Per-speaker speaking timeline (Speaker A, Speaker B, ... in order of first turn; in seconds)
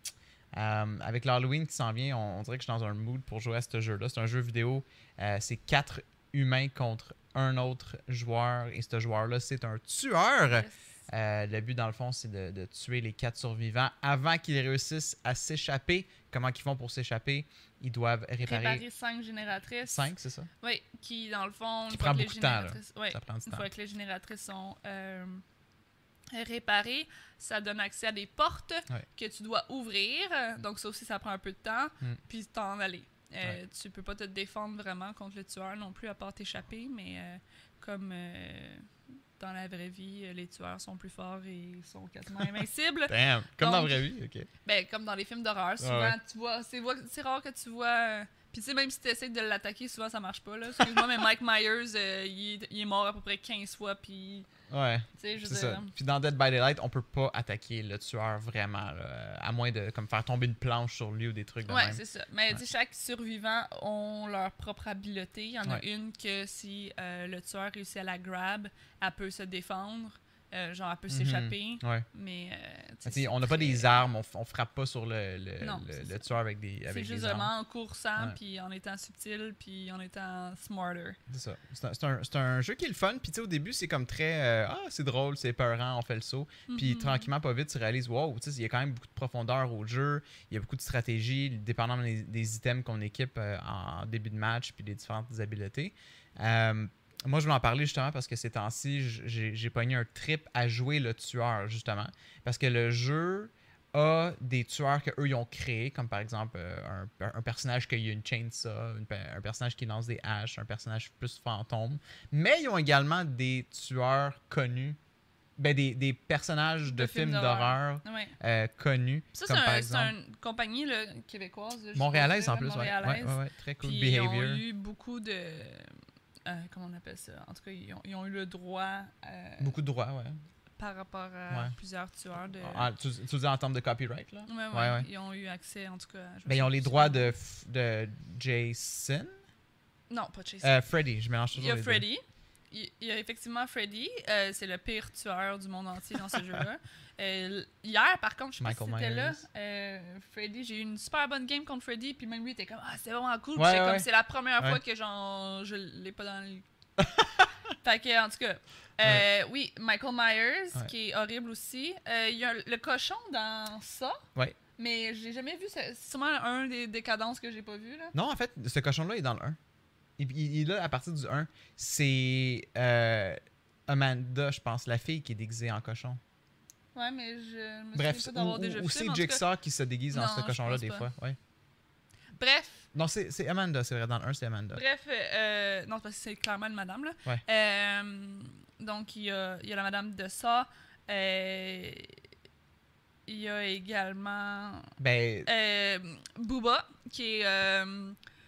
Speaker A: 0.5-18.8, 19.9-20.5, 21.9-23.7, 43.1-44.5, 45.8-46.2, 54.7-62.0, 71.1-72.1, 73.0-77.5, 81.3-115.0, 115.6-120.1, 122.0-124.6, 129.6-130.4, 132.6-135.1, 136.5-139.3, 140.6-142.1, 148.6-149.4, 153.6-154.1, 157.0-157.5, 168.1-169.6, 170.2-176.2, 177.9-181.4, 182.9-184.8, 195.0-195.5
Speaker B: 10.5-10.8, 18.4-25.4, 26.3-44.1, 44.6-54.5, 55.2-55.9, 61.7-73.9, 75.6-76.2, 76.9-81.2, 86.7-87.3, 116.9-118.3, 119.3-126.0, 126.5-129.8, 130.8-132.9, 134.5-137.3, 140.1-140.8, 141.5-156.7, 157.8-164.2, 164.8-168.1, 176.9-179.4, 180.1-181.1, 182.4-182.8, 184.7-192.2, 193.3-194.9, 195.4-198.2